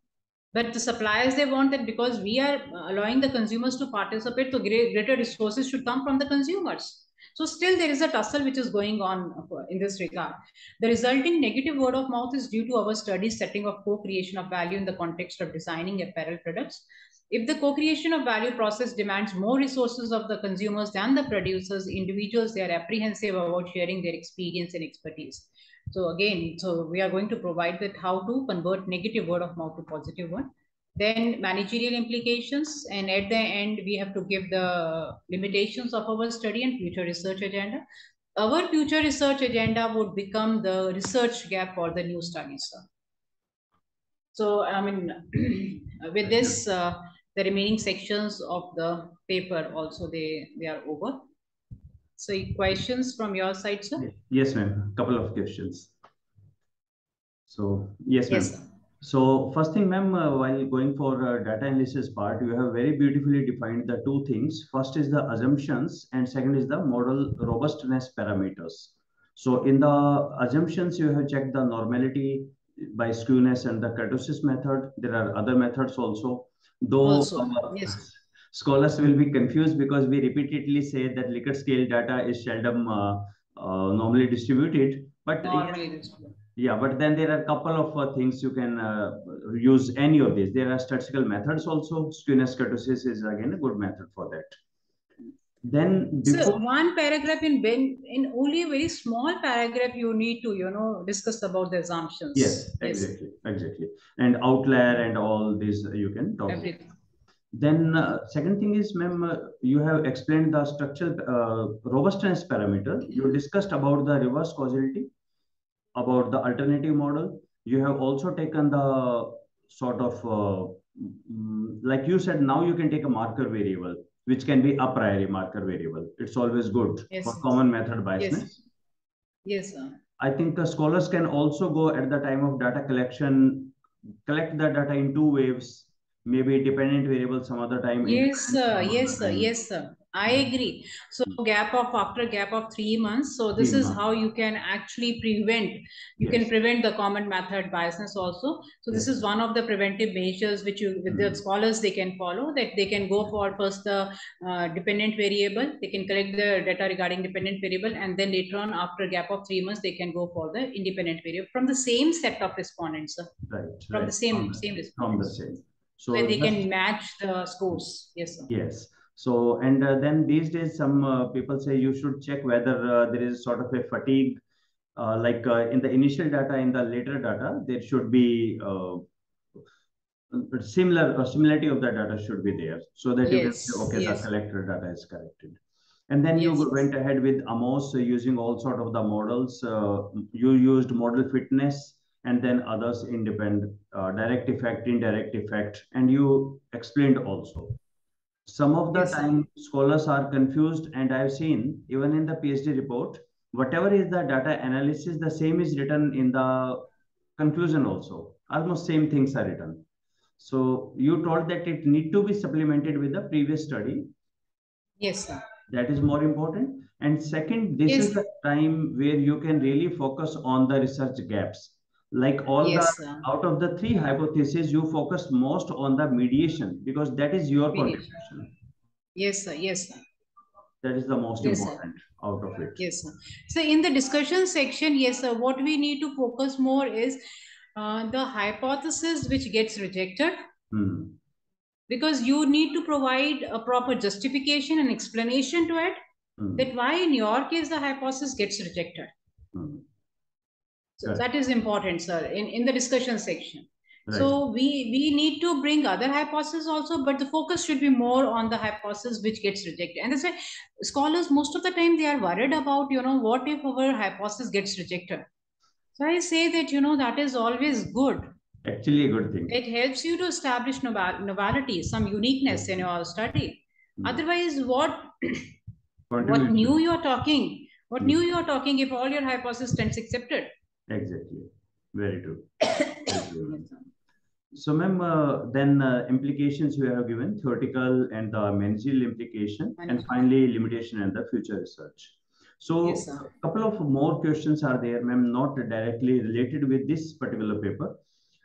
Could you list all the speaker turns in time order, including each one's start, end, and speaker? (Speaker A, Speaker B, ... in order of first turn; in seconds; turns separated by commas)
Speaker A: 0.5-37.8, Speaker A: 38.4-42.8, Speaker A: 44.3-51.2, Speaker A: 52.2-54.0, Speaker B: 54.0-55.9, Speaker B: 57.5-85.8, Speaker A: 58.3-58.6, Speaker A: 77.0-78.0, Speaker A: 85.4-86.3, Speaker B: 86.5-94.5, Speaker B: 95.6-96.6, Speaker A: 96.2-103.1, Speaker B: 102.3-106.7, Speaker A: 106.5-106.9, Speaker B: 107.5-115.1, Speaker B: 115.9-128.6, Speaker A: 127.1-127.5, Speaker A: 128.2-128.5, Speaker A: 129.4-129.9, Speaker B: 130.2-139.5, Speaker A: 138.0-163.3, Speaker B: 143.6-144.0, Speaker B: 146.2-146.5, Speaker B: 151.1-151.4, Speaker B: 163.5-166.6, Speaker A: 163.9-165.3, Speaker A: 166.1-168.5, Speaker B: 168.5-174.4, Speaker B: 174.9-179.0, Speaker B: 180.3-197.8, Speaker A: 183.2-184.3, Speaker A: 186.3-186.8, Speaker B: 198.5-206.8, Speaker A: 198.9-199.3, Speaker B: 207.4-209.8, Speaker B: 210.4-214.1, Speaker A: 215.0-215.4, Speaker B: 215.7-228.5, Speaker A: 217.9-218.1, Speaker A: 222.6-223.2, Speaker A: 227.7-228.1, Speaker A: 229.2-230.0, Speaker B: 230.8-232.8, Speaker A: 231.4-231.8, Speaker A: 232.8-237.2, Speaker A: 237.7-240.3, Speaker B: 240.7-241.2, Speaker A: 241.9-246.0, Speaker B: 246.4-246.7, Speaker A: 246.6-249.1, Speaker B: 249.5-249.8, Speaker A: 251.0-265.3, Speaker B: 254.1-254.3, Speaker A: 265.9-268.2, Speaker B: 268.6-269.6, Speaker A: 269.5-275.5, Speaker B: 276.1-276.8, Speaker A: 276.2-280.5, Speaker B: 280.9-283.7, Speaker B: 284.5-297.9, Speaker A: 289.8-290.1, Speaker A: 292.8-293.3